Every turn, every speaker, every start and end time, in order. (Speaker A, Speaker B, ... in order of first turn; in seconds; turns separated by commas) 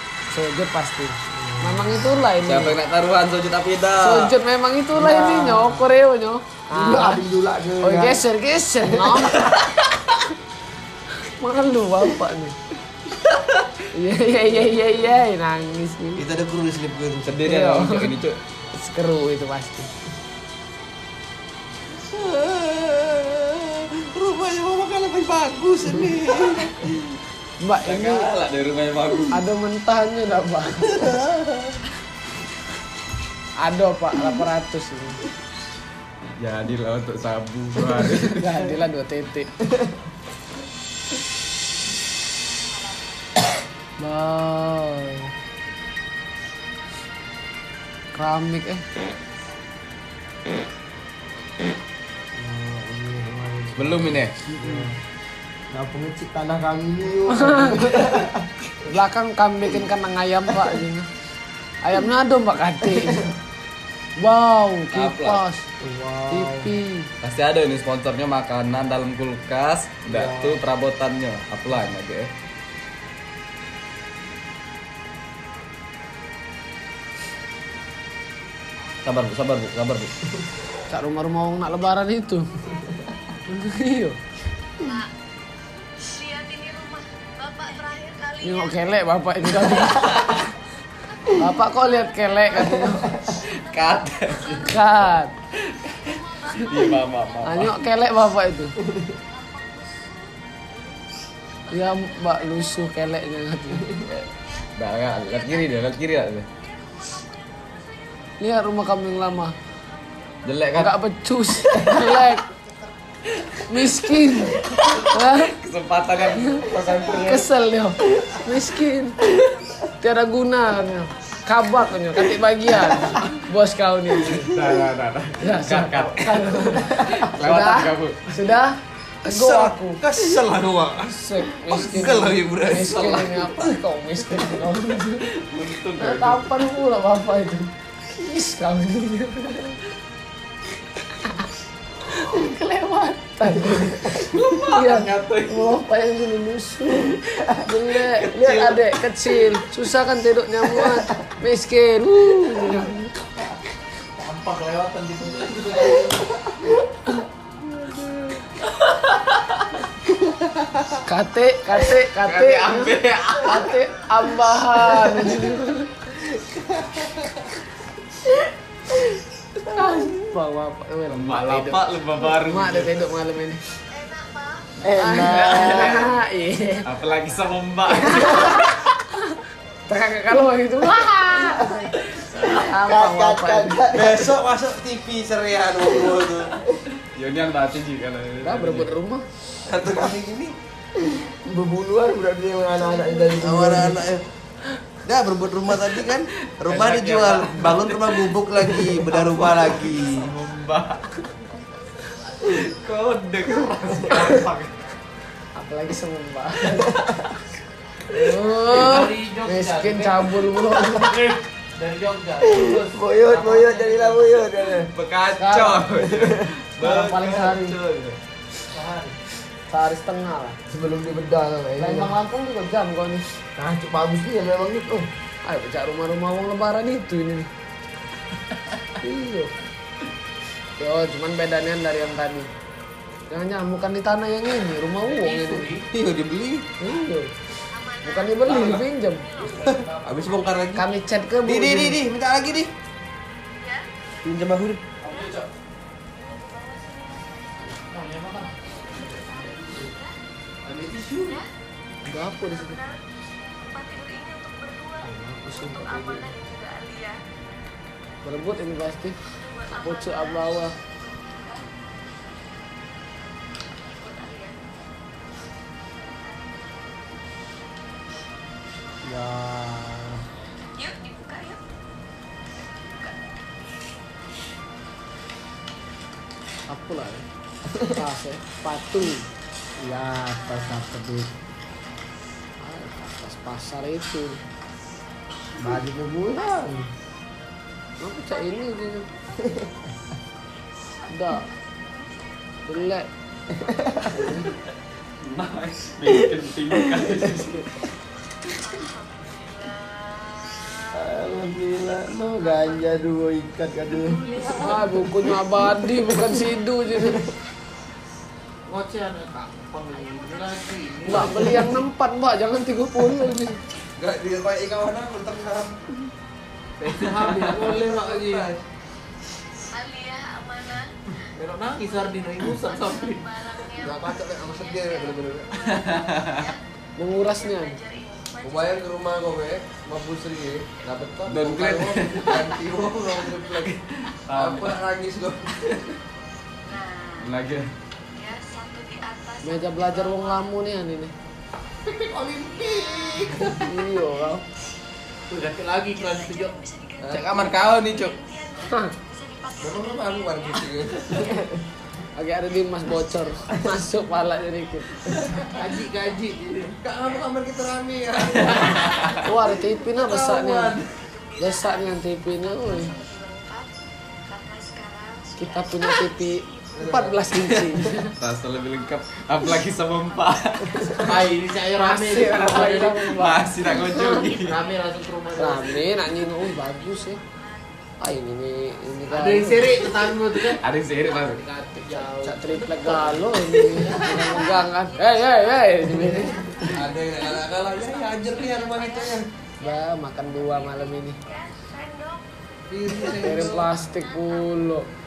Speaker A: 0.3-2.8, Speaker B: 1.3-2.3, Speaker C: 2.4-4.3, Speaker A: 4.0-7.2, Speaker B: 4.9-5.9, Speaker B: 6.7-8.2, Speaker A: 7.8-9.6, Speaker B: 8.8-9.3, Speaker A: 11.2-12.6, Speaker A: 13.9-16.2, Speaker D: 16.2-17.4, Speaker C: 17.3-18.4, Speaker A: 17.4-18.1, Speaker A: 18.7-19.9, Speaker D: 22.0-26.9, Speaker A: 27.6-28.3, Speaker C: 27.9-29.4, Speaker A: 29.3-31.2, Speaker D: 31.1-31.4, Speaker A: 33.6-35.2, Speaker C: 36.4-38.7, Speaker A: 38.2-39.5, Speaker E: 42.7-43.2, Speaker A: 44.0-45.3, Speaker A: 48.1-48.9, Speaker B: 52.4-55.0, Speaker C: 53.8-54.4, Speaker B: 55.7-58.5, Speaker A: 57.3-58.0, Speaker A: 58.9-61.1, Speaker A: 61.8-63.3, Speaker B: 62.9-63.3, Speaker A: 64.2-65.7, Speaker C: 64.9-65.4, Speaker B: 65.8-66.7, Speaker A: 66.3-67.1, Speaker C: 67.2-72.3, Speaker B: 70.1-70.6, Speaker C: 79.0-80.1, Speaker A: 80.9-82.5, Speaker E: 82.6-83.6, Speaker A: 83.5-84.2, Speaker E: 84.8-85.1, Speaker E: 86.0-88.9, Speaker A: 88.4-90.5, Speaker E: 91.3-92.0, Speaker A: 91.3-93.2, Speaker E: 92.7-94.9, Speaker B: 92.9-93.2, Speaker C: 93.3-94.8, Speaker A: 94.6-95.3, Speaker C: 95.7-97.8, Speaker E: 95.8-97.8, Speaker A: 97.4-98.8, Speaker E: 99.2-101.0, Speaker E: 101.7-103.0, Speaker A: 101.7-103.9, Speaker E: 104.0-108.4, Speaker C: 104.1-106.5, Speaker A: 108.4-109.5, Speaker E: 109.6-110.9, Speaker C: 110.5-110.9, Speaker A: 110.8-112.5, Speaker A: 113.7-115.5, Speaker C: 114.5-117.5, Speaker A: 116.4-119.3, Speaker E: 119.3-119.9, Speaker A: 120.0-124.5, Speaker C: 124.3-128.2, Speaker A: 125.4-130.0, Speaker B: 126.8-127.2, Speaker D: 129.2-133.4, Speaker A: 131.1-135.3, Speaker C: 132.9-133.5, Speaker C: 135.4-136.6, Speaker A: 136.0-139.8, Speaker A: 142.1-153.1, Speaker C: 144.2-145.7, Speaker C: 148.1-148.9, Speaker F: 154.2-156.3, Speaker C: 158.8-159.7, Speaker A: 161.1-165.9, Speaker C: 162.2-163.8, Speaker D: 166.6-167.4, Speaker A: 169.7-173.6, Speaker B: 169.8-170.1, Speaker C: 171.1-173.1, Speaker E: 173.9-174.8, Speaker B: 174.8-176.1, Speaker A: 175.0-176.9, Speaker C: 175.5-175.8, Speaker C: 176.8-178.7, Speaker A: 178.0-183.9, Speaker B: 181.3-181.7, Speaker B: 182.6-184.4, Speaker D: 183.9-186.5, Speaker B: 185.9-186.7, Speaker C: 187.1-189.0, Speaker A: 188.4-189.3, Speaker D: 189.7-190.5, Speaker B: 191.2-194.0, Speaker D: 193.4-194.2, Speaker D: 195.1-200.3, Speaker C: 196.5-201.1, Speaker E: 202.0-203.7, Speaker C: 202.4-204.8, Speaker A: 205.6-207.0, Speaker E: 207.6-208.8, Speaker A: 208.1-211.1, Speaker F: 208.6-214.5, Speaker B: 212.4-214.9, Speaker C: 214.9-218.2, Speaker A: 215.4-215.9, Speaker B: 215.9-216.5, Speaker A: 216.8-217.8, Speaker F: 218.7-219.2, Speaker A: 219.7-220.6, Speaker B: 220.7-222.2, Speaker A: 221.8-223.2, Speaker B: 223.6-225.1, Speaker A: 225.4-227.5, Speaker A: 229.0-229.6, Speaker A: 230.8-232.5, Speaker A: 233.3-235.7, Speaker F: 235.0-235.9, Speaker D: 235.9-236.7, Speaker A: 236.8-237.3, Speaker E: 237.7-239.8, Speaker A: 238.0-239.3, Speaker F: 238.5-238.8, Speaker F: 239.3-240.3, Speaker D: 240.0-240.9, Speaker A: 240.8-242.0, Speaker D: 241.4-242.7, Speaker E: 243.6-243.9, Speaker D: 244.2-244.9, Speaker F: 245.0-245.5, Speaker E: 245.1-245.5, Speaker E: 246.2-250.2, Speaker F: 247.7-249.9, Speaker F: 250.7-251.3, Speaker D: 250.7-251.3, Speaker A: 252.1-252.8, Speaker E: 252.1-257.2, Speaker A: 255.0-256.3, Speaker A: 258.2-259.2, Speaker E: 259.2-261.6, Speaker A: 259.7-260.8, Speaker E: 263.8-264.6, Speaker E: 266.0-266.8, Speaker B: 269.0-270.2, Speaker E: 270.8-271.6, Speaker E: 272.8-273.3, Speaker A: 276.7-277.2, Speaker A: 277.9-279.3, Speaker B: 279.8-281.3, Speaker E: 280.4-280.8, Speaker A: 282.6-284.4, Speaker B: 285.6-286.9, Speaker E: 286.4-286.7, Speaker A: 288.0-289.1, Speaker E: 288.3-289.7, Speaker E: 290.9-292.9, Speaker A: 291.1-291.5, Speaker A: 292.7-293.1, Speaker B: 293.6-294.3, Speaker A: 294.0-294.5, Speaker C: 295.2-297.5, Speaker B: 296.1-297.1, Speaker A: 297.2-297.7, Speaker E: 298.5-301.2, Speaker B: 300.9-307.3, Speaker E: 302.1-302.9, Speaker E: 304.1-304.7, Speaker F: 304.1-304.9, Speaker A: 304.6-307.2, Speaker F: 308.7-311.9, Speaker E: 309.9-311.7, Speaker A: 311.1-313.6, Speaker D: 314.0-315.8, Speaker F: 316.8-318.5, Speaker C: 317.2-317.5, Speaker D: 317.3-318.6, Speaker E: 319.7-328.9, Speaker F: 321.4-323.3, Speaker D: 323.8-325.7, Speaker C: 325.7-326.6, Speaker A: 327.0-327.8, Speaker D: 328.4-333.8, Speaker C: 331.3-332.5, Speaker C: 333.7-334.8, Speaker D: 334.3-336.0, Speaker E: 336.6-337.4, Speaker C: 337.2-337.7, Speaker E: 338.1-340.6, Speaker A: 339.4-341.1, Speaker D: 341.8-343.7, Speaker E: 342.4-343.6, Speaker A: 343.6-344.4, Speaker F: 345.3-346.6, Speaker E: 345.9-351.4, Speaker D: 347.0-347.4, Speaker C: 347.1-348.2, Speaker D: 349.6-351.4, Speaker A: 352.2-355.0, Speaker E: 352.9-353.7, Speaker E: 355.1-356.2, Speaker D: 355.1-355.5, Speaker F: 355.6-356.8, Speaker D: 356.8-361.1, Speaker E: 358.7-359.2, Speaker A: 359.2-360.8, Speaker E: 360.9-363.7, Speaker A: 361.4-362.9, Speaker E: 364.3-367.9, Speaker A: 365.4-368.1, Speaker D: 366.8-367.1, Speaker C: 368.2-371.0, Speaker E: 368.7-371.6, Speaker B: 370.7-371.0, Speaker F: 371.0-373.1, Speaker A: 371.8-374.3, Speaker C: 372.8-374.6, Speaker F: 374.3-375.9, Speaker E: 374.4-377.9, Speaker A: 375.4-377.2, Speaker A: 378.0-379.9, Speaker E: 378.6-380.1, Speaker F: 379.1-384.5, Speaker C: 380.4-381.4, Speaker A: 381.8-386.7, Speaker E: 384.1-392.3, Speaker B: 385.9-386.7, Speaker D: 386.7-389.2, Speaker A: 389.6-391.2, Speaker D: 392.7-393.7, Speaker E: 393.0-394.8, Speaker A: 393.2-394.9